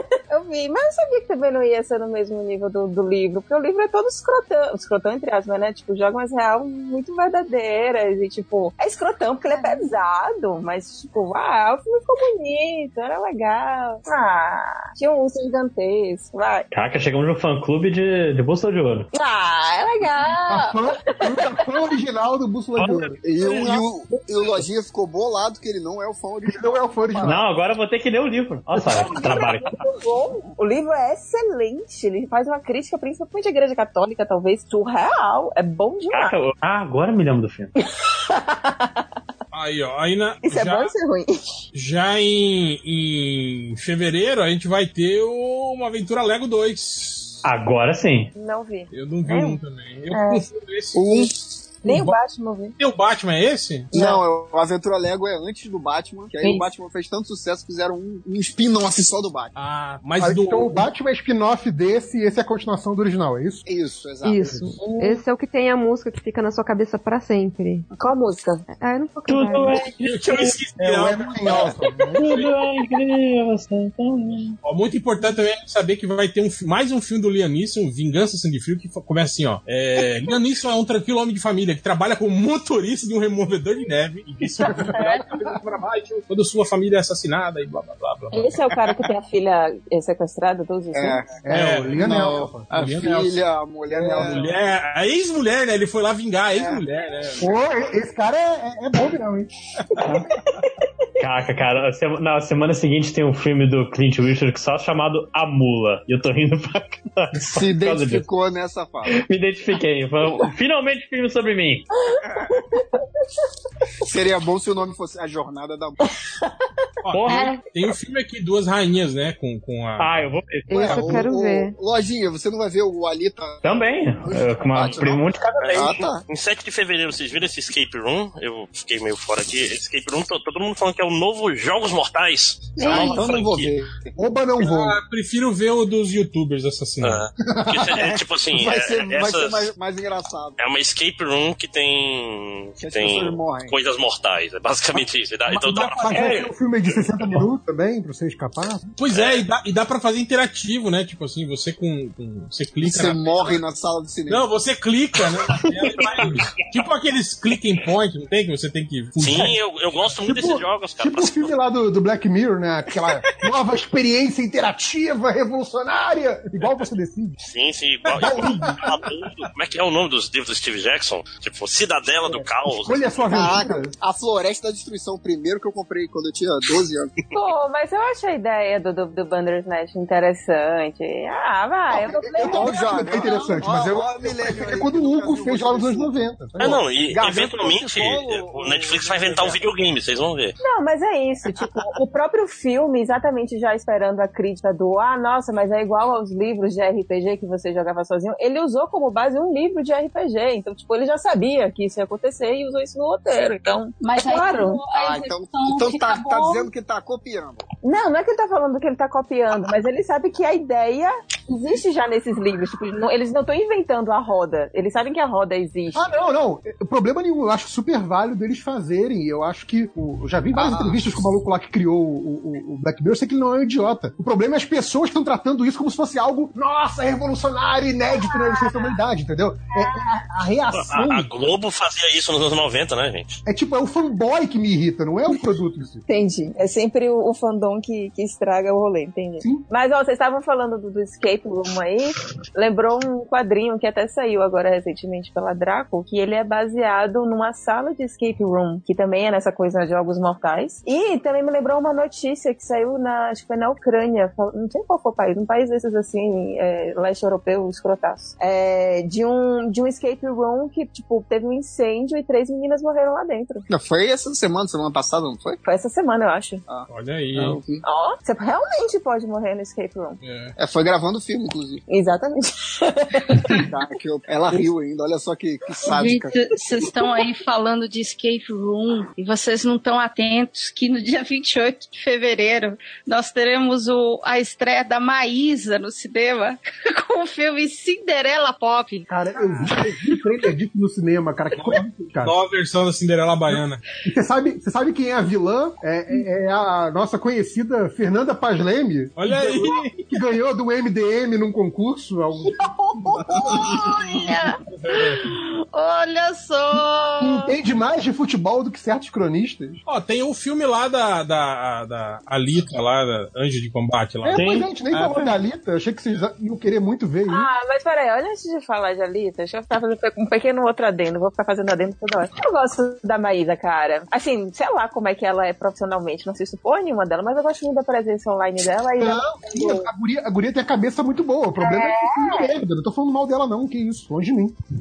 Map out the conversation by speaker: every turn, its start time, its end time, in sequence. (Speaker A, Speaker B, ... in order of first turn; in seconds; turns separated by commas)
Speaker A: 0.3-16.7, Speaker B: 9.5-9.8, Speaker C: 16.7-19.1, Speaker A: 19.1-20.8, Speaker D: 20.5-23.2, Speaker C: 22.8-23.8, Speaker E: 23.2-27.4, Speaker D: 26.4-27.4, Speaker C: 27.2-29.7, Speaker A: 28.9-36.4, Speaker C: 36.1-37.7, Speaker A: 38.3-38.9, Speaker F: 39.5-40.9, Speaker A: 40.4-41.4, Speaker F: 41.7-47.4, Speaker C: 47.4-48.3, Speaker A: 48.4-49.6, Speaker F: 48.9-52.2, Speaker A: 50.1-50.4, Speaker E: 50.9-51.3, Speaker A: 51.8-52.8, Speaker F: 52.8-53.9, Speaker A: 53.9-54.2, Speaker E: 53.9-59.5, Speaker F: 59.6-60.9, Speaker D: 60.2-63.6, Speaker E: 63.7-64.6, Speaker G: 64.2-67.9, Speaker A: 64.8-65.2, Speaker A: 67.9-68.7, Speaker G: 68.8-69.8, Speaker C: 69.3-70.6, Speaker F: 70.0-71.7, Speaker D: 70.8-72.3, Speaker C: 71.9-74.6, Speaker F: 74.6-88.5, Speaker D: 84.7-85.4, Speaker A: 84.9-85.2, Speaker A: 88.3-91.2, Speaker E: 90.9-91.3, Speaker D: 91.4-92.7, Speaker F: 91.5-92.0, Speaker E: 91.9-94.6, Speaker F: 92.7-93.4, Speaker D: 93.9-94.5, Speaker F: 94.1-97.5, Speaker E: 96.5-96.8, Speaker D: 97.4-99.5, Speaker C: 101.2-108.3, Speaker E: 107.4-109.2, Speaker C: 109.1-111.9, Speaker E: 114.0-116.0, Speaker F: 117.0-120.3, Speaker C: 117.1-117.6, Speaker C: 120.0-121.0, Speaker G: 120.7-121.7, Speaker E: 120.7-126.2, Speaker C: 123.6-126.1, Speaker H: 125.6-133.8, Speaker B: 132.8-133.4, Speaker E: 132.8-134.1, Speaker D: 134.2-135.0, Speaker F: 134.6-137.3, Speaker H: 137.0-139.7, Speaker D: 137.5-138.2, Speaker E: 137.9-140.6, Speaker H: 140.6-146.5, Speaker E: 142.8-143.8, Speaker D: 145.5-148.9, Speaker F: 145.7-146.3, Speaker F: 149.0-153.6, Speaker H: 149.1-149.5, Speaker E: 152.8-154.4, Speaker F: 154.3-159.6, Speaker H: 159.2-161.5, Speaker D: 160.2-167.4, Speaker H: 167.4-173.1, Speaker F: 168.1-168.5, Speaker D: 168.2-169.0, Speaker D: 172.2-173.9, Speaker E: 173.3-177.1, Speaker A: 177.3-183.5, Speaker D: 182.3-186.8, Speaker B: 182.4-183.7, Speaker E: 182.5-189.7, Speaker H: 186.6-190.6, Speaker A: 190.6-204.8, Speaker B: 204.0-206.7, Speaker E: 204.9-207.7, Speaker A: 207.8-216.2, Speaker D: 215.9-231.3, Speaker H: 230.7-233.4, Speaker D: 233.5-236.1, Speaker A: 236.1-263.7, Speaker E: 263.7-265.6, Speaker A: 265.6-266.6, Speaker E: 266.7-267.8, Speaker F: 266.9-267.6, Speaker A: 267.8-270.2, Speaker F: 270.2-270.6, Speaker E: 270.6-271.8, Speaker A: 271.9-273.6, Speaker E: 273.5-276.4, Speaker B: 275.9-289.1, Speaker D: 289.1-292.4, Speaker F: 292.2-293.8, Speaker D: 294.1-302.7, Speaker F: 299.2-300.0, Speaker B: 303.1-307.5, Speaker F: 304.9-305.2, Speaker D: 307.2-309.8, Speaker F: 309.9-314.4, Speaker D: 314.2-317.5, Speaker C: 314.3-315.3, Speaker A: 317.3-329.9, Speaker D: 329.0-334.6, Speaker A: 331.6-332.5